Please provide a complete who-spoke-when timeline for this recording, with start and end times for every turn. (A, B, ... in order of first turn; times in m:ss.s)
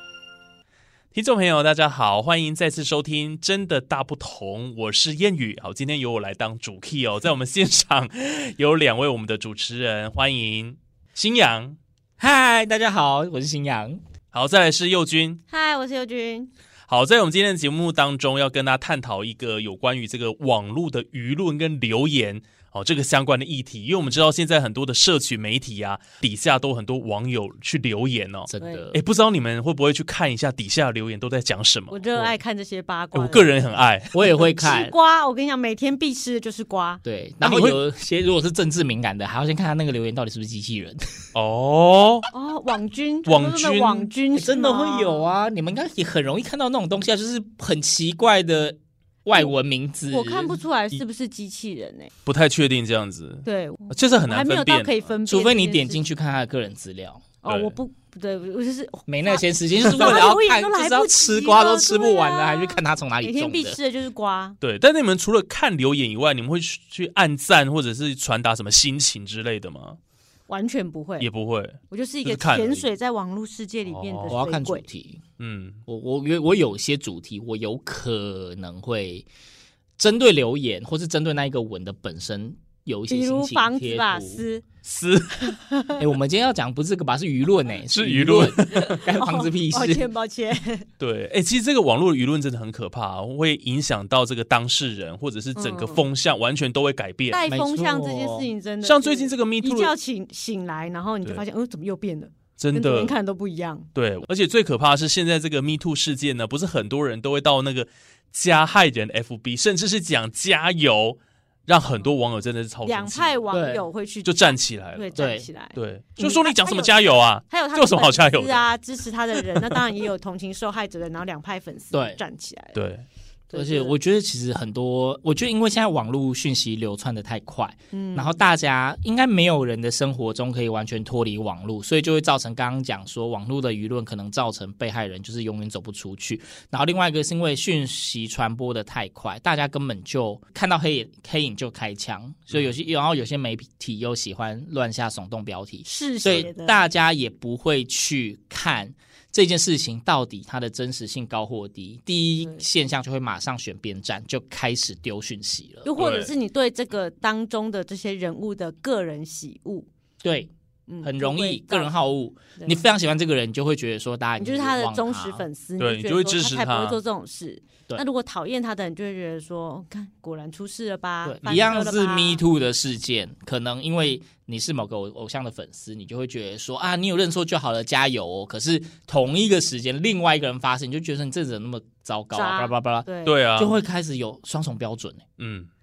0:01.1-0:11.8 A
0:12.2-0:14.0 B
0:14.3-0:15.4 A
0:15.5-0:16.5 C
0:16.9-0:32.2 A
0:28.5-0:29.0 B
0:28.6-0:28.8 C
0:31.9-0:33.6 C
0:33.1-0:34.2 A
0:34.1-0:34.9 B
0:34.5-0:37.0 C
0:37.0-0:41.0 B
0:37.4-0:37.8 A
0:41.3-0:42.3 A
0:42.3-0:45.3 C
0:43.2-0:44.1 A
0:44.3-0:50.6 B
0:50.1-0:52.1 C
0:52.2-0:55.1 A
0:53.4-0:56.0 C
0:55.2-0:57.2 B
0:57.4-1:04.6 C
0:57.4-0:57.8 A
0:59.1-1:03.8 B
1:04.6-1:10.0 A
1:10.5-1:11.3 C
1:11.2-1:12.9 A
1:11.9-1:14.8 C
1:13.8-1:14.4 A
1:14.3-1:15.2 B
1:15.4-1:15.8 A
1:15.9-1:19.3 B
1:20.0-1:24.4 B
1:23.1-1:24.6 C
1:24.8-1:25.6 A
1:25.5-1:26.0 C
1:26.0-1:30.1 B
1:27.9-1:29.0 A
1:29.0-1:30.8 C
1:31.0-1:37.4 A
1:35.5-1:36.0 C
1:37.3-1:43.9 C
1:37.5-1:38.5 B
1:38.8-1:39.9 A
1:42.6-1:43.1 A
1:43.9-1:53.4 A
1:52.8-2:02.8 C
1:53.5-1:53.8 B
1:54.2-1:58.7 A
1:55.2-1:55.5 B
2:01.9-2:02.2 B
2:02.7-2:03.0 A
2:03.5-2:03.9 C
2:03.5-2:35.9 B
2:07.9-2:08.3 C
2:25.8-2:26.8 C
2:26.2-2:26.5 A
2:32.4-2:32.6 C
2:35.8-2:39.9 C
2:36.0-2:36.3 A
2:40.2-2:40.5 B
2:40.9-2:42.0 C
2:41.0-2:45.4 B
2:44.4-2:52.4 C
2:45.8-2:47.0 A
2:51.2-3:05.2 B
2:51.4-2:51.7 A
3:02.3-3:03.4 C
3:03.2-3:03.8 A
3:05.4-3:05.7 A